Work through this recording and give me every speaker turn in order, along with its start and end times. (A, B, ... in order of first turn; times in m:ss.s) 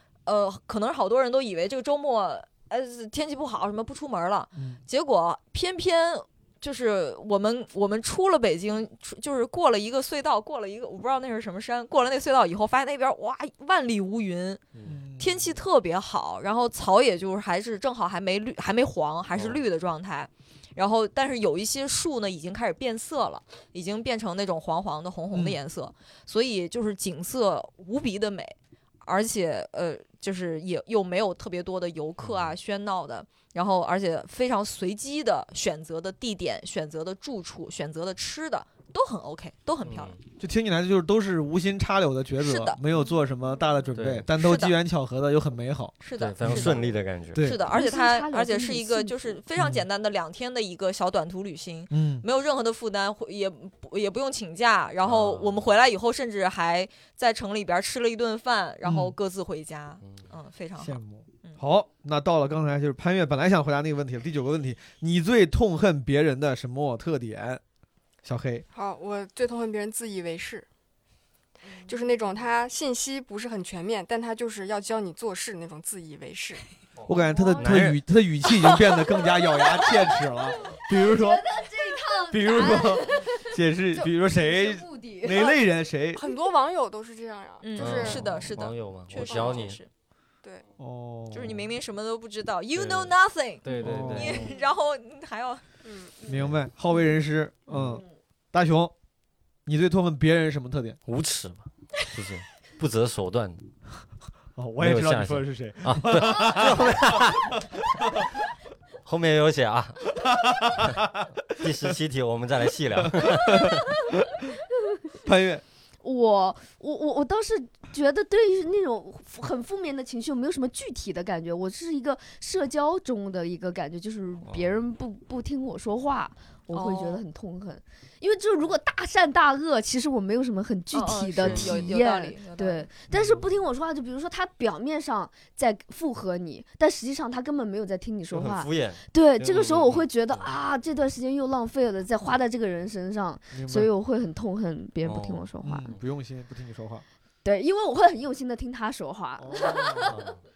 0:00.2-0:14.6 A
0:04.6-0:04.8 B
0:14.8-0:15.4 B
0:15.2-0:40.2 A
0:19.3-0:19.6 C
0:25.3-0:25.6 B
0:32.2-0:32.6 C
0:39.8-0:40.2 C
0:40.4-0:46.8 B
0:42.4-0:42.8 A
0:43.9-0:44.3 C
0:44.4-0:44.7 A
0:46.0-1:01.6 A
0:46.1-0:47.4 C
0:47.3-0:47.6 B
0:47.7-0:49.4 D
0:49.6-0:49.8 B
0:51.9-0:52.2 B
0:55.0-0:55.7 C
0:58.8-0:59.1 B
1:00.8-1:07.6 B
1:08.2-1:08.6 B
1:08.7-1:10.7 E
1:11.8-1:16.6 E
1:17.0-1:18.0 C
1:17.1-1:21.4 B
1:17.3-1:17.7 D
1:18.9-1:25.5 D
1:22.3-1:26.2 B
1:26.1-1:28.3 E
1:27.6-1:29.9 A
1:27.8-1:29.8 C
1:29.2-1:29.8 E
1:30.8-1:31.7 B
1:31.3-1:35.6 A
1:32.7-1:34.6 C
1:33.8-1:34.4 B
1:35.8-1:36.1 E
1:36.3-1:38.9 B
1:36.3-1:36.6 C
1:39.6-1:41.0 B
1:41.0-1:43.6 C
1:44.6-1:48.3 B
1:44.8-1:48.0 C
1:49.0-1:50.1 C
1:50.2-1:51.2 B
1:50.8-1:53.8 C
1:53.0-1:53.8 B
1:55.2-1:55.6 B
1:56.0-2:25.9 D
2:04.4-2:04.8 C
2:06.7-2:07.2 A
2:10.9-2:12.9 A
2:11.4-2:11.9 C
2:18.3-2:20.5 C
2:23.5-2:23.9 B
2:25.0-2:25.5 C
2:25.6-2:27.0 B
2:27.4-2:30.3 D
2:29.4-2:30.1 B
2:30.1-2:30.4 C